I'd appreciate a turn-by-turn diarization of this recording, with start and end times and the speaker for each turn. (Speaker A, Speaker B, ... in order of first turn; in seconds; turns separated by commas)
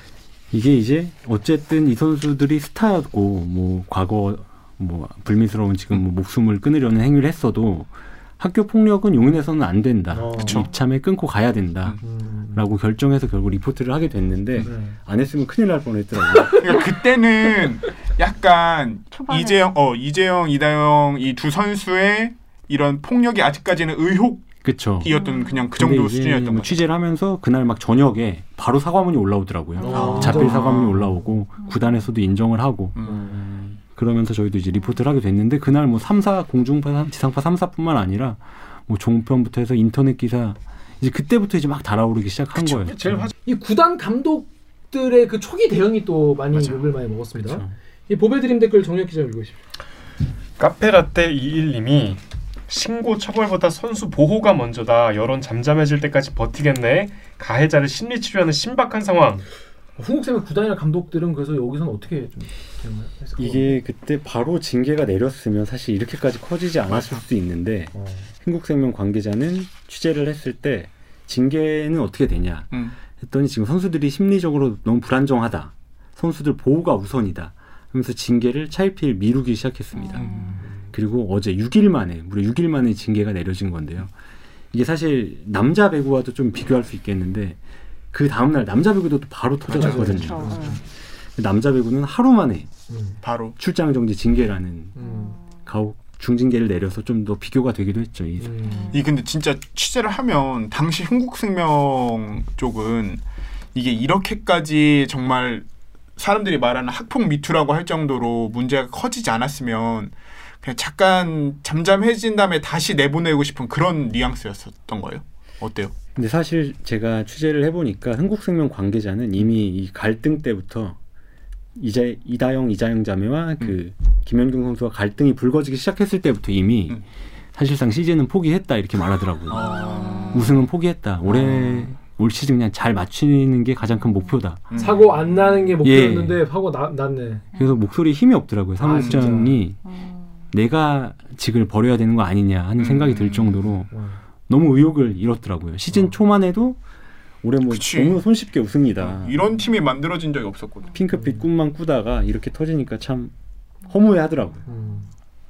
Speaker A: 0.5-12.0, Speaker B: 10.1-10.6, Speaker C: 10.4-10.7, Speaker B: 12.0-12.6, Speaker A: 12.5-16.7, Speaker B: 14.6-14.9, Speaker C: 16.6-24.5, Speaker D: 19.1-19.8, Speaker A: 24.6-25.2, Speaker C: 25.0-26.8, Speaker D: 25.1-25.7, Speaker A: 25.7-33.2, Speaker B: 29.8-31.1, Speaker D: 29.8-30.1, Speaker C: 29.9-31.1, Speaker C: 33.0-33.5, Speaker B: 33.0-33.5, Speaker A: 33.7-43.3, Speaker E: 42.6-43.3, Speaker B: 43.4-49.6, Speaker A: 47.3-47.8, Speaker E: 50.6-59.5, Speaker B: 60.0-63.8, Speaker A: 63.4-84.1, Speaker C: 66.9-67.2, Speaker B: 67.9-68.3, Speaker D: 80.0-80.6, Speaker B: 80.2-80.8, Speaker A: 84.7-87.6, Speaker A: 88.1-90.8, Speaker C: 89.7-90.3, Speaker B: 89.7-90.8, Speaker D: 90.0-90.8, Speaker A: 91.4-92.7, Speaker B: 92.9-93.2, Speaker C: 93.2-93.5, Speaker A: 93.6-98.8, Speaker B: 95.0-95.4, Speaker D: 95.0-95.6, Speaker B: 98.4-99.0, Speaker D: 98.6-99.1, Speaker C: 98.9-103.2, Speaker C: 103.7-115.9, Speaker A: 116.1-121.0, Speaker A: 121.7-134.8, Speaker C: 129.5-130.6, Speaker D: 129.8-130.4, Speaker C: 131.3-131.9, Speaker C: 134.7-135.0, Speaker B: 134.8-137.4, Speaker A: 135.8-136.4, Speaker A: 137.5-139.8, Speaker D: 137.6-137.8, Speaker B: 138.8-139.6, Speaker C: 138.9-139.3, Speaker D: 139.8-140.3, Speaker A: 140.5-143.9, Speaker C: 142.8-143.5, Speaker B: 143.9-144.2, Speaker A: 144.5-146.8, Speaker A: 147.4-149.3, Speaker C: 147.7-148.2, Speaker C: 149.0-150.9, Speaker A: 150.9-153.3, Speaker B: 151.1-151.4, Speaker A: 153.9-154.6, Speaker B: 154.7-155.1